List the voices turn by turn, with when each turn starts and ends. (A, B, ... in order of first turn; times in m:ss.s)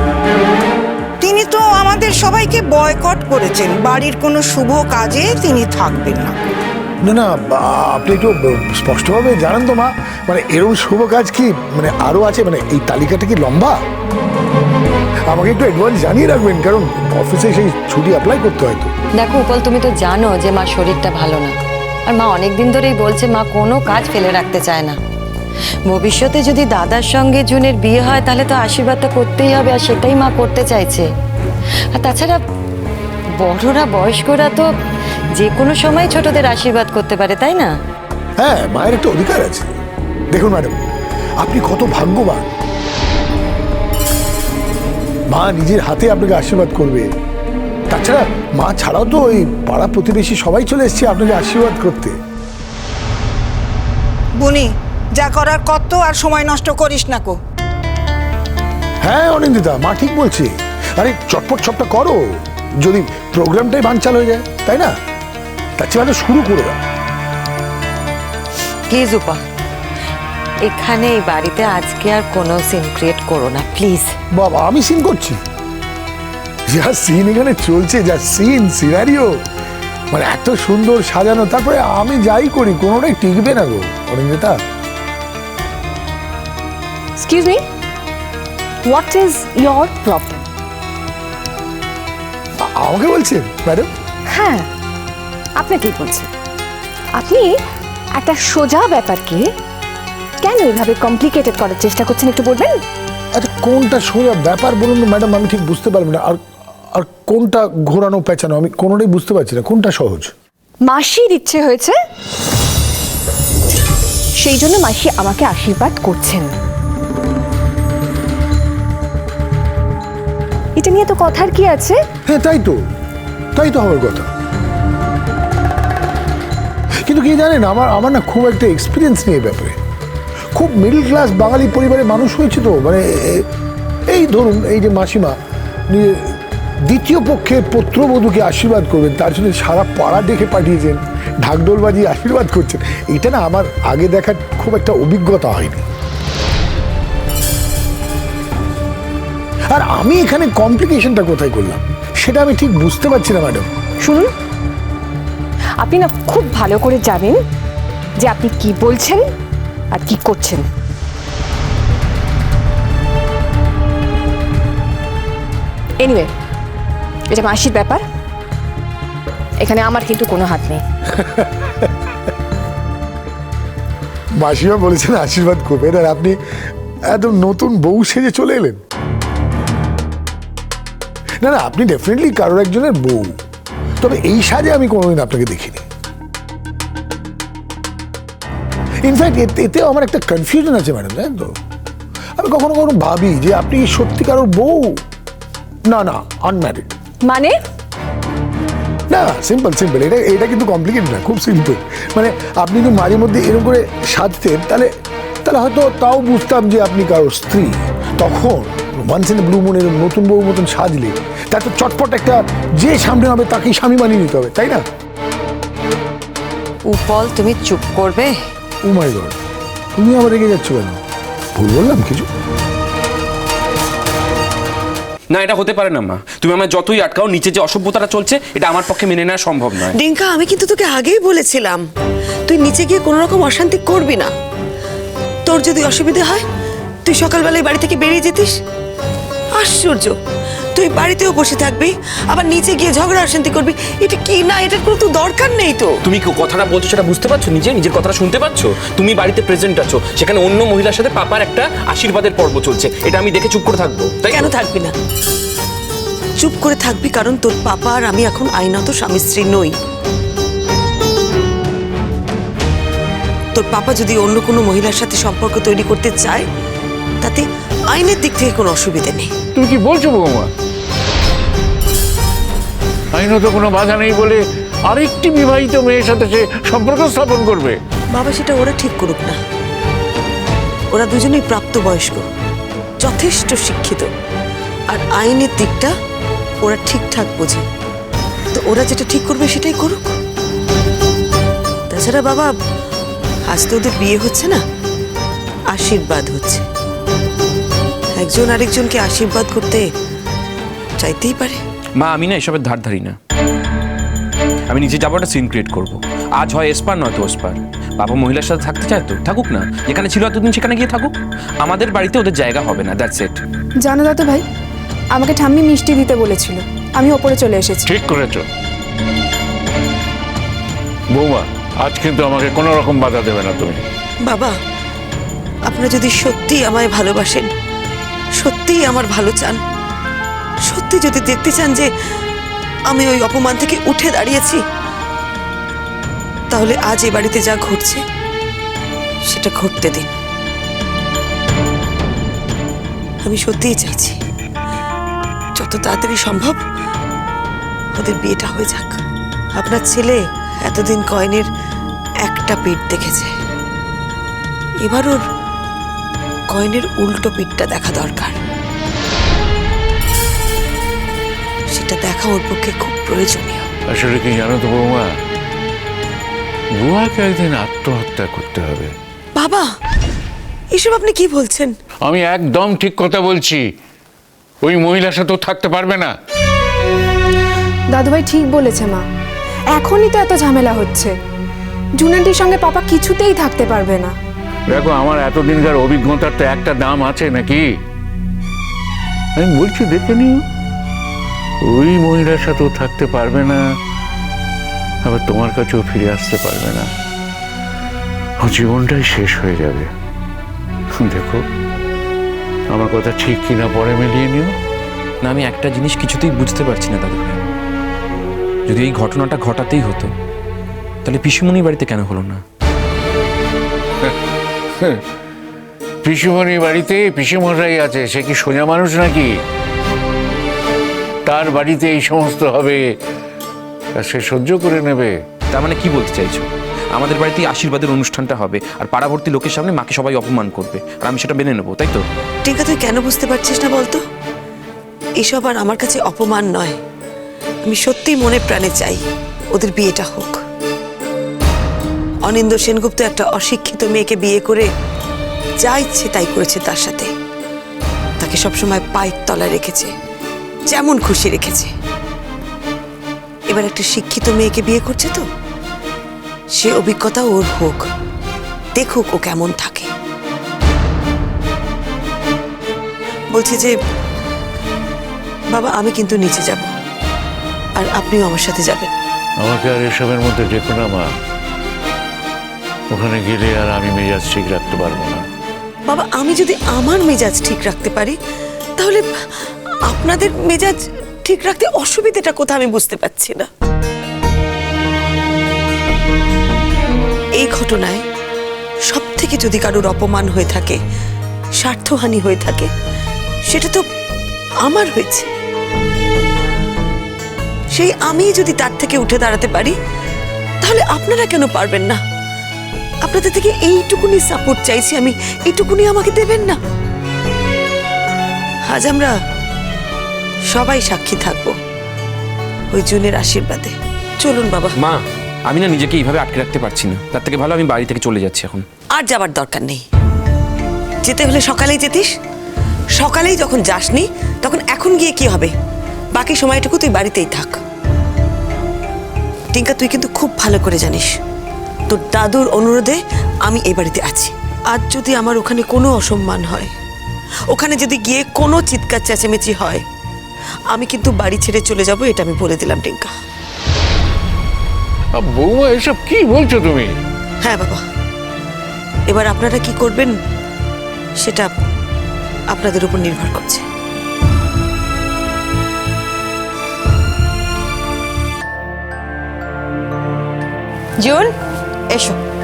0:01.2-0:06.5 A
0:07.0-0:13.8 B
0:15.3-0:18.9 B
0:19.2-0:21.5 C
0:22.1-0:25.0 C
0:25.9-0:31.1 C
0:31.9-0:32.4 C
0:33.4-0:34.7 C
0:35.4-0:37.8 C
0:38.4-0:39.7 B
0:40.3-0:40.8 B
0:41.4-0:42.5 B
0:45.3-0:47.1 B
0:47.9-0:52.2 B
0:54.4-0:57.4 A
0:59.0-1:02.2 B
1:02.8-1:04.9 B
1:05.8-1:06.8 B
1:08.9-1:09.4 C
1:10.6-1:14.1 C
1:14.3-1:15.4 B
1:16.7-1:19.4 B
1:20.1-1:24.6 B
1:27.2-1:27.6 D
1:28.8-1:30.4 D
1:32.7-1:33.9 B
1:34.3-1:34.7 D
1:35.6-1:36.3 D
1:37.2-1:37.6 D
1:38.2-1:39.5 D
1:40.4-1:42.8 D
1:43.4-1:46.4 B
1:46.9-1:50.3 B
1:50.8-1:52.0 D
1:54.4-1:56.5 D
2:00.8-2:02.0 D
2:02.3-2:02.8 B
2:03.6-2:04.3 B
2:07.0-2:09.8 B
2:10.6-2:13.4 B
2:14.1-2:15.4 B
2:15.9-2:16.4 B
2:16.9-2:25.8 B
2:29.7-2:33.7 B
2:34.0-2:34.3 D
2:35.8-2:37.4 D
2:38.2-2:39.2 D
2:39.9-2:40.6 D
2:46.0-2:46.3 D
2:47.3-2:48.0 D
2:49.6-2:50.8 D
2:51.2-2:51.8 B
2:54.4-2:56.4 B
2:57.1-2:58.8 B
3:01.4-3:03.4 B
3:04.0-3:05.8 B
3:09.0-3:11.5 B
3:12.4-3:15.0 B
3:15.9-3:16.9 B
3:17.2-3:17.6 D
3:19.1-3:24.9 B
3:25.4-3:34.8 B
3:36.8-3:38.4 C
3:38.8-3:39.4 B
3:40.0-3:41.0 B
3:41.6-3:42.3 B
3:45.3-3:50.0 E
3:49.9-3:51.8 F
3:52.5-3:54.3 F
3:55.5-3:56.4 F
3:57.1-3:58.5 F
3:59.6-4:00.1 F
4:00.8-4:06.0 F
4:06.1-4:14.6 E
4:14.3-4:15.0 F
4:16.4-4:19.7 F
4:23.6-4:26.5 F
4:27.2-4:29.3 F
4:29.6-4:30.5 G
4:33.1-4:37.8 G
4:38.2-4:39.4 F
4:40.9-4:42.3 F
4:43.0-4:44.1 F
4:44.9-4:45.9 F
4:46.6-4:47.6 F
4:48.5-4:50.2 F
4:51.9-4:52.5 F
4:53.5-4:54.6 F
4:55.7-4:56.6 F
4:58.2-4:59.8 F
5:01.0-5:01.6 F
5:02.0-5:03.2 E
5:04.7-5:13.4 E
5:13.8-5:14.4 H
5:15.1-5:17.9 H
5:17.8-5:18.5 G
5:21.1-5:23.8 G
5:24.3-5:24.5 F
5:25.7-5:27.5 F
5:28.4-5:29.6 F
5:30.7-5:31.9 F
5:32.9-5:34.6 F
5:36.5-5:38.0 F
5:39.3-5:40.1 F
5:43.2-5:44.2 F
5:45.6-5:46.6 F
5:48.0-5:49.0 F
5:49.6-5:51.5 F
5:52.2-5:53.3 F
5:54.8-5:55.2 F
5:56.5-5:58.4 F
6:01.7-6:03.7 F
6:03.9-6:05.1 G
6:06.8-6:09.0 G
6:09.4-6:09.6 F
6:10.7-6:11.7 F
6:12.0-6:13.6 G
6:14.6-6:16.1 G
6:17.9-6:19.1 H
6:19.7-6:21.2 H
6:22.0-6:24.2 H
6:24.7-6:27.7 G
6:29.4-6:30.4 G
6:31.6-6:33.6 G
6:35.0-6:36.9 G
6:38.4-6:39.9 G
6:41.0-6:41.4 G
6:42.7-6:44.5 G
6:45.2-6:47.4 E
6:48.7-6:50.1 E
6:51.0-6:52.4 E
6:56.0-6:59.3 G
7:01.3-7:02.9 G
7:04.0-7:05.2 G
7:05.5-7:12.0 E
7:12.4-7:14.0 F
7:15.2-7:16.8 F
7:17.7-7:19.0 F
7:19.6-7:20.4 F
7:22.3-7:24.6 F
7:25.6-7:27.1 F
7:28.2-7:29.9 F
7:30.7-7:31.7 F
7:33.5-7:35.2 F
7:36.6-7:37.8 F
7:38.8-7:39.9 F
7:43.3-7:43.7 F
7:45.5-7:46.7 F
7:47.8-7:48.9 F
7:49.4-7:51.1 G
7:52.9-7:55.3 G
7:55.9-7:58.2 F
7:59.9-8:03.5 F
8:07.4-8:08.0 F
8:08.9-8:10.8 F
8:11.6-8:12.7 F
8:13.5-8:13.8 F
8:14.6-8:15.3 F
8:17.8-8:19.8 F
8:20.6-8:22.0 F
8:23.1-8:26.6 F
8:28.7-8:29.1 F
8:30.5-8:31.5 F
8:32.7-8:34.7 F
8:34.8-8:38.6 E
8:39.0-8:39.8 F
8:41.0-8:42.1 F
8:43.0-8:45.5 F
8:46.2-8:47.6 F
8:49.5-8:51.1 F
8:51.9-8:53.0 F
8:53.5-8:56.7 F
8:57.5-8:59.8 F
9:00.7-9:03.1 F
9:05.2-9:06.9 G
9:07.4-9:07.8 F
9:09.1-9:10.1 F
9:11.2-9:11.5 F
9:12.5-9:13.6 F
9:21.0-9:21.3 C
9:21.9-9:22.2 C